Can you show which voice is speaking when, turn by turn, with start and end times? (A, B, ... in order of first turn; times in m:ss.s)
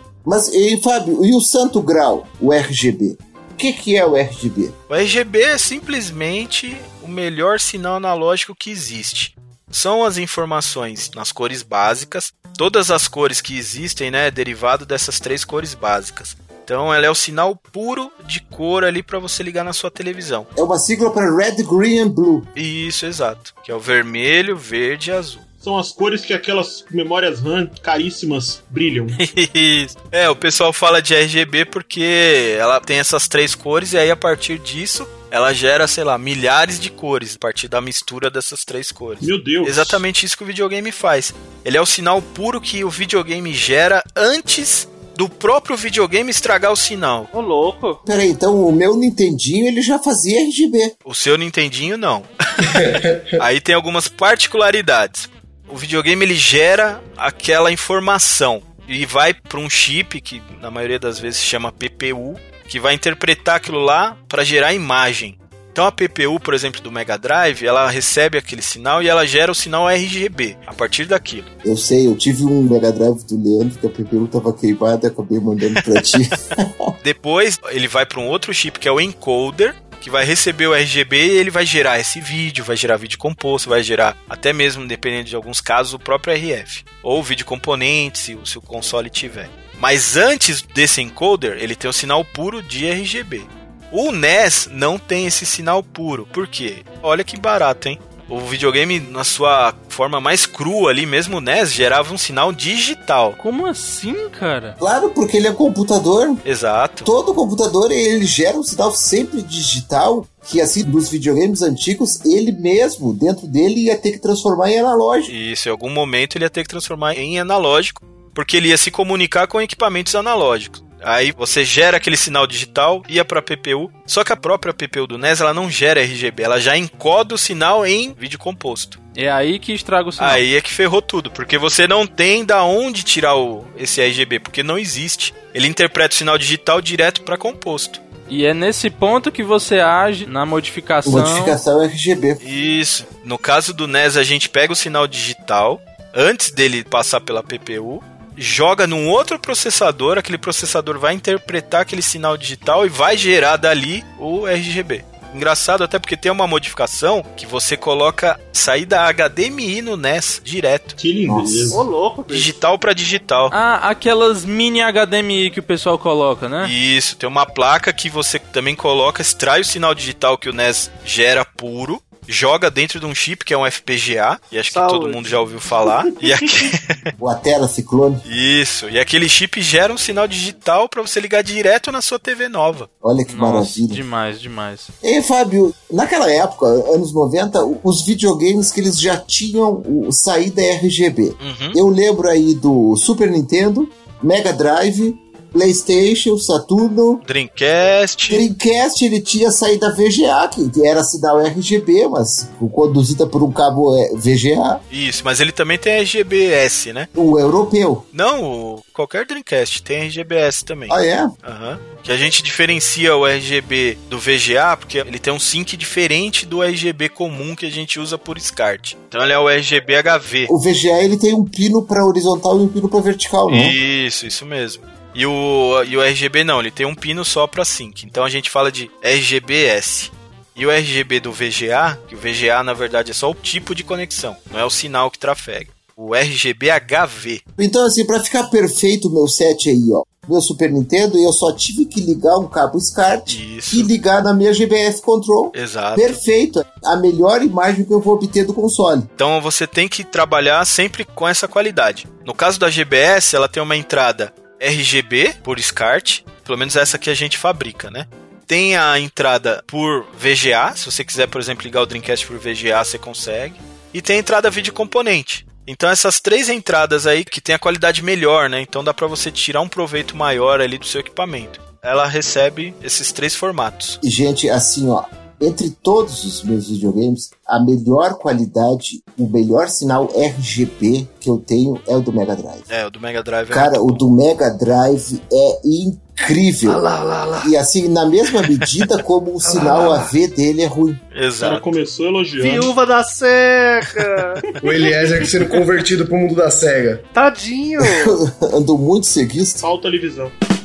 0:00.2-0:04.7 A
0:04.9-0:20.5 B
0:20.5-0:22.5 A
0:22.6-0:25.4 B
0:25.6-0:29.2 C
0:29.2-0:47.3 B
0:39.2-0:40.0 C
0:47.3-0:48.0 D
0:48.0-0:50.9 A
0:51.0-0:52.8 B
0:52.6-0:53.4 E
0:53.4-1:11.5 B
1:11.6-1:16.9 A
1:17.0-1:43.4 B
1:43.4-1:44.8 F
1:44.8-1:46.4 A
1:46.4-1:47.1 B
1:47.0-1:55.3 A
1:55.3-2:09.0 B
2:09.1-2:10.4 F
2:10.2-2:18.0 B
2:18.3-2:21.6 F
2:21.0-2:22.4 A
2:22.4-2:41.0 B
2:41.0-2:41.8 C
2:41.2-2:41.8 A
2:41.7-2:42.5 D
2:42.3-2:43.5 B
2:43.5-2:46.7 F
2:46.6-2:57.1 B
2:54.7-2:55.3 D
2:57.2-2:58.2 A
2:58.2-3:02.9 B
3:03.0-3:04.0 A
3:03.3-3:04.9 F
3:05.0-3:17.2 A
3:11.4-3:11.8 B
3:17.2-3:18.4 B
3:18.3-3:24.8 A
3:24.9-3:27.1 B
3:27.1-3:28.0 A
3:28.1-3:40.5 B
3:30.9-3:31.3 A
3:40.5-3:43.8 A
3:43.5-3:57.4 B
3:57.6-4:09.1 A
4:03.3-4:03.9 B
4:05.5-4:06.2 B
4:09.2-4:34.0 B
4:34.0-4:42.7 A
4:42.7-4:44.0 B
4:43.5-4:46.8 A
4:46.6-4:47.5 D
4:47.4-4:51.0 A
4:49.4-4:50.1 D
4:51.1-4:51.6 B
4:51.4-4:52.7 C
4:52.4-4:54.4 D
4:54.6-4:57.0 E
4:57.1-4:58.2 D
4:57.8-4:59.6 A
4:59.6-5:00.3 C